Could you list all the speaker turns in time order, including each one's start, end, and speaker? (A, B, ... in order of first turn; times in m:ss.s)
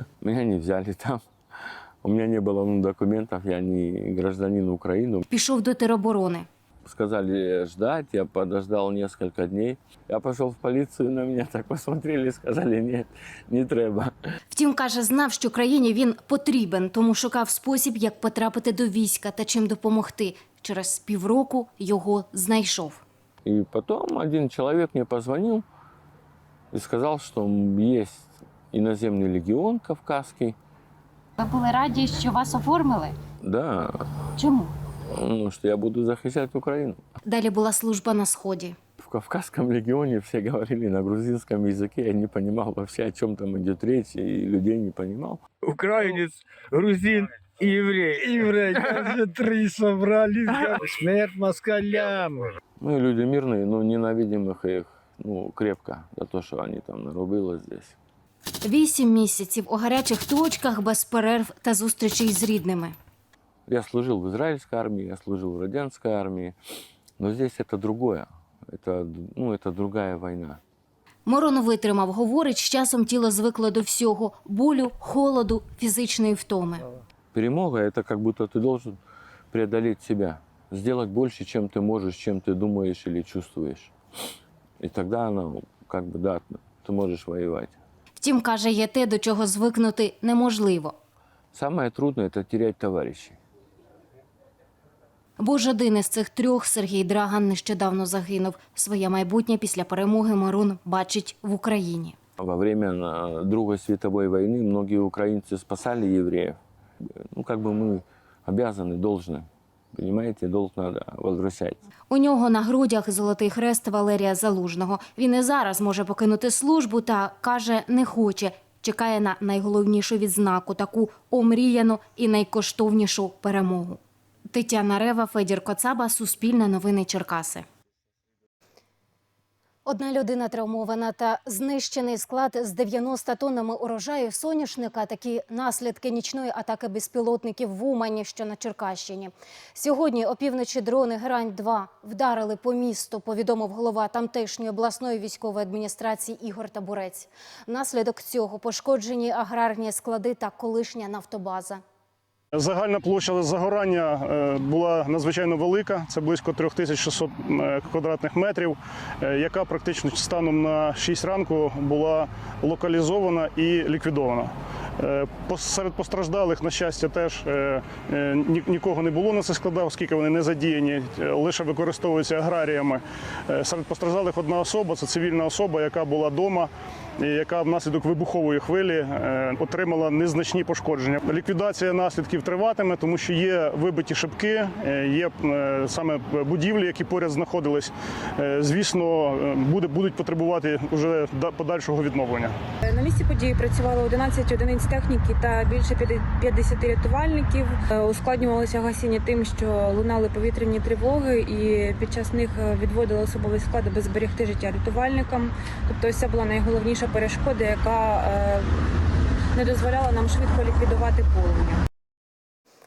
0:00.2-0:01.2 A
0:02.0-0:05.2 A
0:05.3-0:06.5 B
0:06.8-0:14.1 A
0:14.5-0:23.0 B
0:23.4-0:25.6 A
0:26.7-0:30.6 A
0:31.4-0:33.1 B
0:33.4-0:34.0 A
0:34.4-0:34.7 B
0:35.1-0:37.0 A
0:37.2-0:38.8 B
0:39.0-0:45.4 A
0:45.7-0:52.4 C
0:52.8-0:58.0 A
0:58.6-1:02.9 B
1:03.7-1:06.6 A
1:07.2-1:10.6 A
1:11.2-1:16.8 B
1:17.3-1:19.0 A
1:19.5-1:23.9 A
1:24.8-1:27.8 A
1:28.2-1:30.9 B
1:31.5-1:33.4 A
1:35.4-1:42.2 B
1:42.4-1:46.6 A
1:47.3-1:51.8 A
1:52.1-2:04.0 B
2:04.5-2:07.6 B
2:09.9-2:31.8 B
2:32.6-2:56.7 D
2:57.2-3:12.5 D
3:12.9-3:28.8 E
3:29.6-3:31.8 E